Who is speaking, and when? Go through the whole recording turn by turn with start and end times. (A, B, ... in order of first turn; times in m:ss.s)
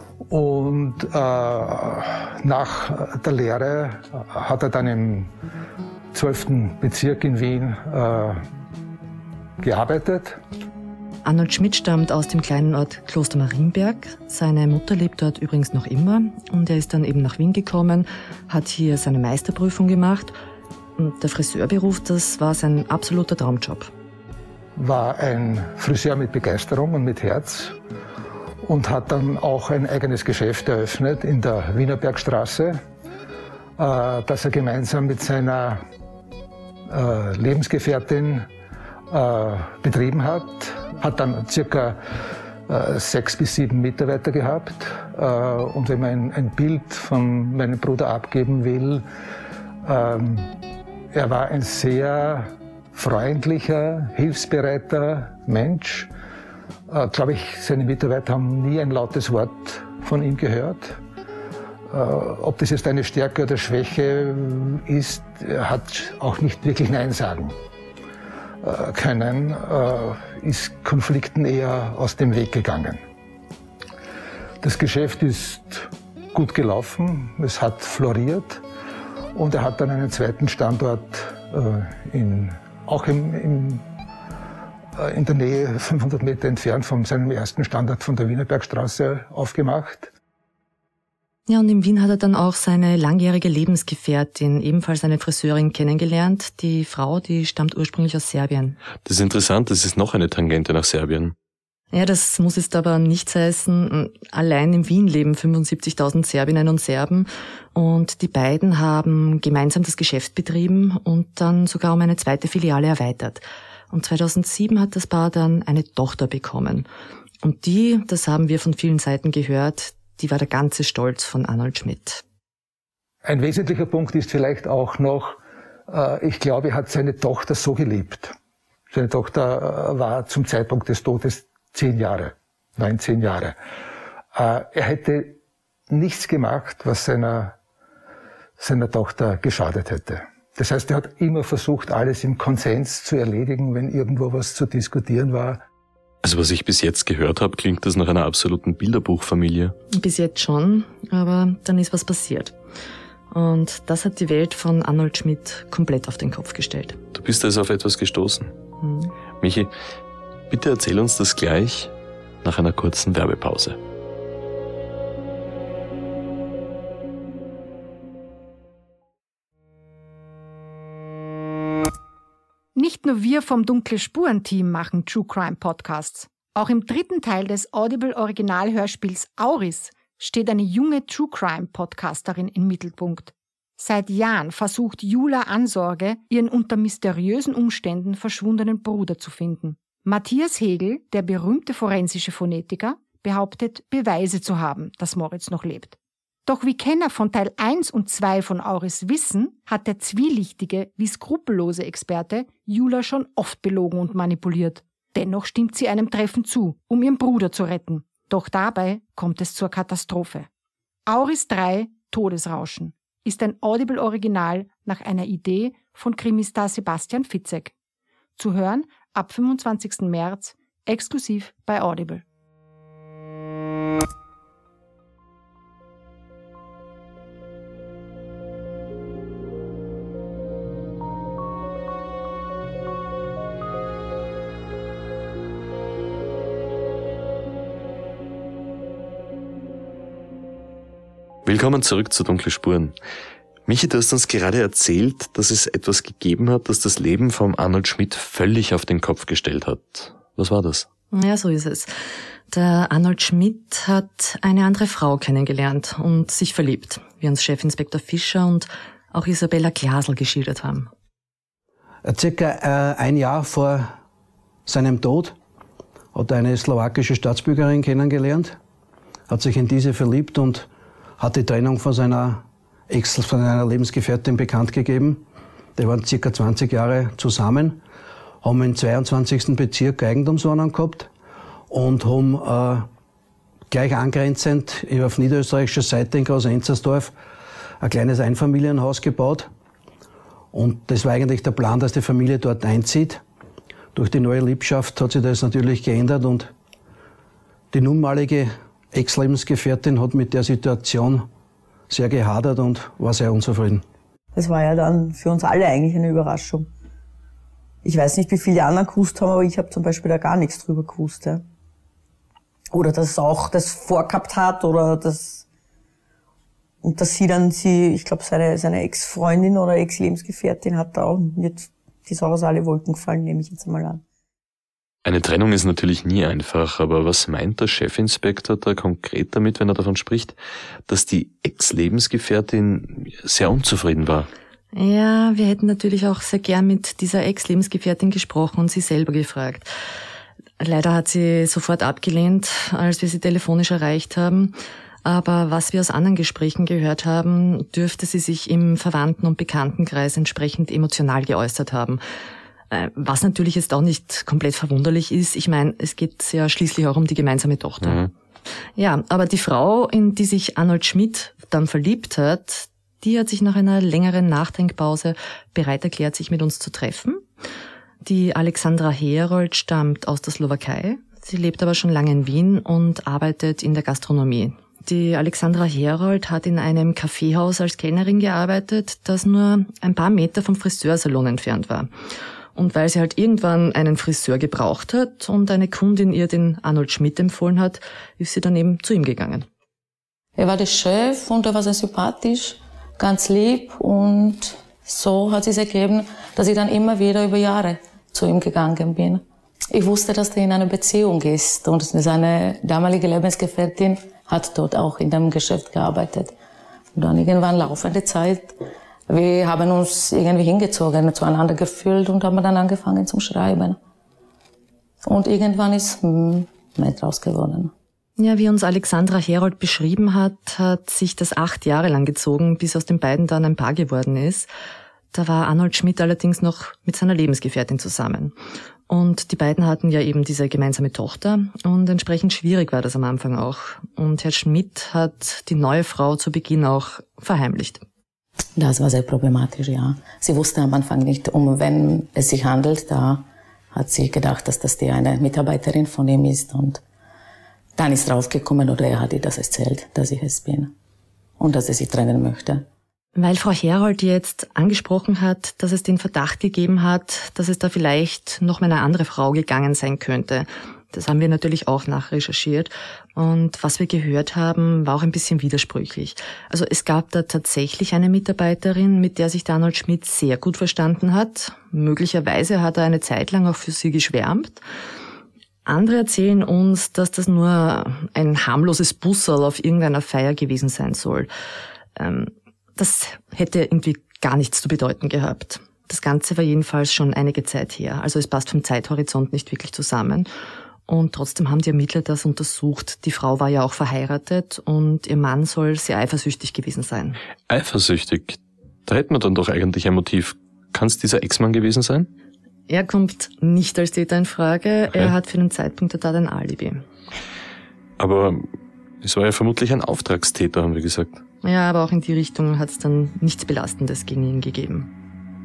0:00.3-0:05.3 A
0:06.1-0:08.4 A
0:09.6-0:10.4 A
0:11.2-0:20.4 B
0:21.0-0:23.9 B
0:24.8-0:27.8 A
0:28.6-0:32.8 A
0:33.8-0:35.8 A
0:36.9-0:38.5 A
0:39.1-0:42.0 A
0:42.7-0:49.0 A
0:49.8-0:50.5 A
0:51.1-0:56.1 A
0:56.9-1:01.0 A
1:01.9-1:07.6 A
1:08.6-1:13.0 A
1:14.6-1:18.6 A
1:19.3-1:23.8 A
1:25.0-1:30.1 A
1:31.5-1:38.8 B
1:39.0-1:41.4 C
1:41.9-1:56.9 B
1:57.4-2:02.2 B
2:03.2-2:08.4 A
2:08.9-2:13.6 A
2:14.3-2:15.4 A
2:15.9-2:17.6 A
2:18.6-2:25.6 A
2:26.2-2:29.8 C
2:29.9-2:32.6 B
2:33.3-2:37.0 B
2:37.1-2:38.5 C
2:38.8-2:39.1 B
2:39.4-2:39.7 C
2:40.5-2:43.8 C
2:52.8-3:30.5 D
3:31.1-3:37.7 D
3:38.4-3:42.2 D
4:01.5-4:03.0 C
4:03.7-4:10.9 C
4:11.1-4:11.9 B
4:12.5-4:20.9 B
4:22.0-4:23.9 E
4:24.7-4:25.4 E
4:26.1-4:28.6 E
4:29.3-4:30.7 E
4:31.2-4:35.2 E
4:35.8-4:37.8 E
4:38.4-4:41.1 E
4:41.7-4:42.9 E
4:43.7-4:47.2 E
4:47.8-4:49.5 E
4:50.5-4:53.2 E
4:54.0-4:56.5 E
4:57.7-5:01.3 E
5:01.9-5:03.8 E
5:04.4-5:06.7 F
5:07.8-5:11.4 F
5:12.7-5:15.4 F
5:16.8-5:24.0 F
5:25.0-5:30.4 C
5:30.9-5:34.3 C
5:34.7-5:39.7 B
5:40.6-5:52.0 B
5:52.7-5:58.0 B
5:57.8-5:58.1 C
5:58.8-6:07.3 B
6:08.0-6:21.9 B
6:22.6-6:29.5 B
6:30.4-6:46.3 G
6:47.0-6:48.6 G
6:49.1-6:53.8 G
6:55.0-6:57.7 G
6:58.2-7:04.5 B
7:05.1-7:08.4 B
7:08.9-7:17.8 B
7:18.6-7:26.8 G
7:27.8-7:30.7 G
7:31.4-7:32.7 G
7:33.2-7:54.6 B
7:55.7-8:01.3 B
8:02.0-8:10.3 B
8:10.9-8:17.2 B
8:17.5-8:22.1 C
8:22.7-8:26.8 B
8:28.0-8:28.5 C
8:29.0-8:31.2 C
8:31.4-8:34.9 B